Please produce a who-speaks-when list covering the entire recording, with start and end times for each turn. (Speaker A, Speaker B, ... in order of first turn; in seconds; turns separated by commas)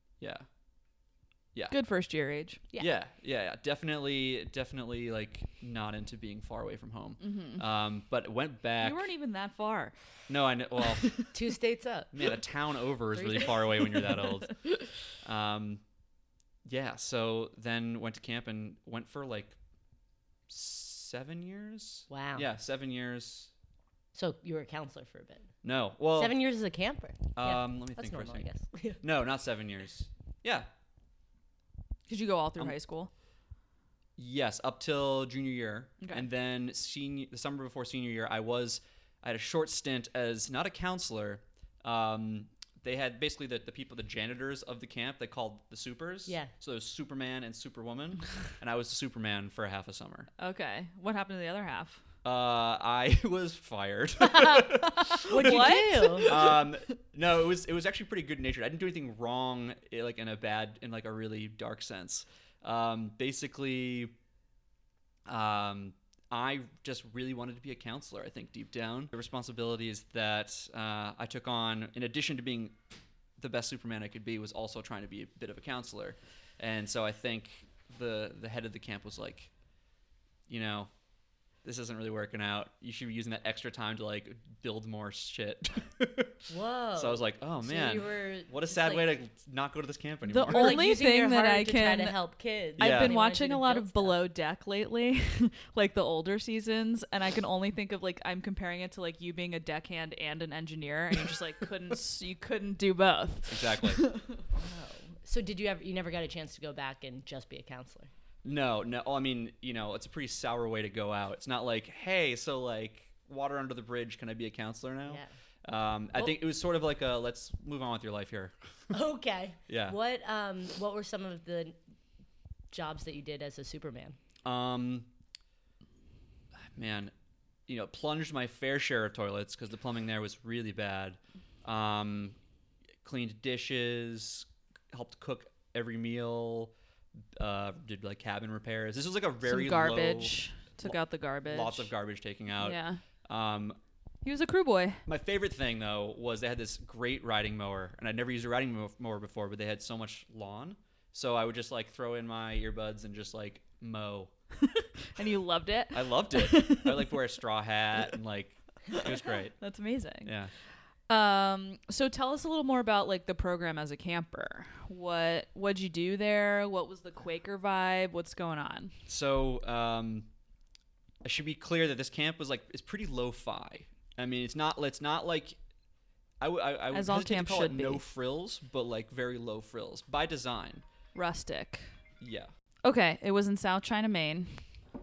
Speaker A: 0.2-0.5, Speaker B: 1.7-2.6, Speaker A: 2.8-9.1, Speaker B: 7.2-7.6, Speaker B: 8.8-9.9, Speaker A: 10.3-11.2, Speaker B: 10.8-11.2, Speaker C: 11.3-12.2, Speaker A: 12.1-14.6, Speaker C: 13.1-13.6, Speaker B: 14.1-14.5, Speaker A: 15.2-15.8, Speaker A: 16.6-19.6, Speaker A: 20.5-23.5, Speaker C: 22.1-22.5, Speaker C: 24.1-25.5, Speaker A: 25.6-26.3, Speaker C: 26.1-29.0, Speaker A: 27.3-28.5, Speaker A: 29.0-30.7, Speaker B: 32.1-33.1, Speaker A: 34.2-50.3, Speaker B: 36.0-36.3, Speaker B: 50.4-52.0, Speaker A: 52.2-64.1, Speaker C: 54.2-54.6, Speaker B: 54.9-56.7, Speaker C: 55.2-56.3, Speaker A: 65.2-72.7, Speaker A: 73.4-79.5, Speaker A: 80.5-80.9, Speaker A: 81.6-90.9, Speaker C: 86.5-89.1, Speaker B: 90.2-92.2, Speaker C: 90.5-94.2, Speaker B: 92.8-104.4, Speaker A: 92.8-93.2, Speaker A: 103.5-104.0, Speaker C: 104.5-108.1, Speaker A: 108.4-118.5, Speaker C: 118.9-121.8, Speaker A: 119.7-120.0, Speaker C: 122.7-124.2, Speaker A: 124.4-125.1, Speaker A: 126.7-127.1, Speaker A: 127.7-132.4, Speaker A: 133.0-136.7, Speaker A: 137.3-143.8, Speaker B: 139.4-141.9, Speaker B: 142.6-143.0, Speaker B: 144.2-145.0, Speaker A: 145.1-154.3, Speaker B: 154.6-157.2, Speaker A: 155.9-159.6, Speaker B: 158.9-160.3, Speaker A: 160.2-160.5, Speaker B: 161.1-168.9, Speaker A: 169.1-170.3, Speaker A: 171.2-175.6, Speaker A: 176.4-180.8, Speaker B: 176.9-178.0, Speaker B: 181.1-181.9, Speaker A: 182.2-182.5, Speaker B: 182.8-184.6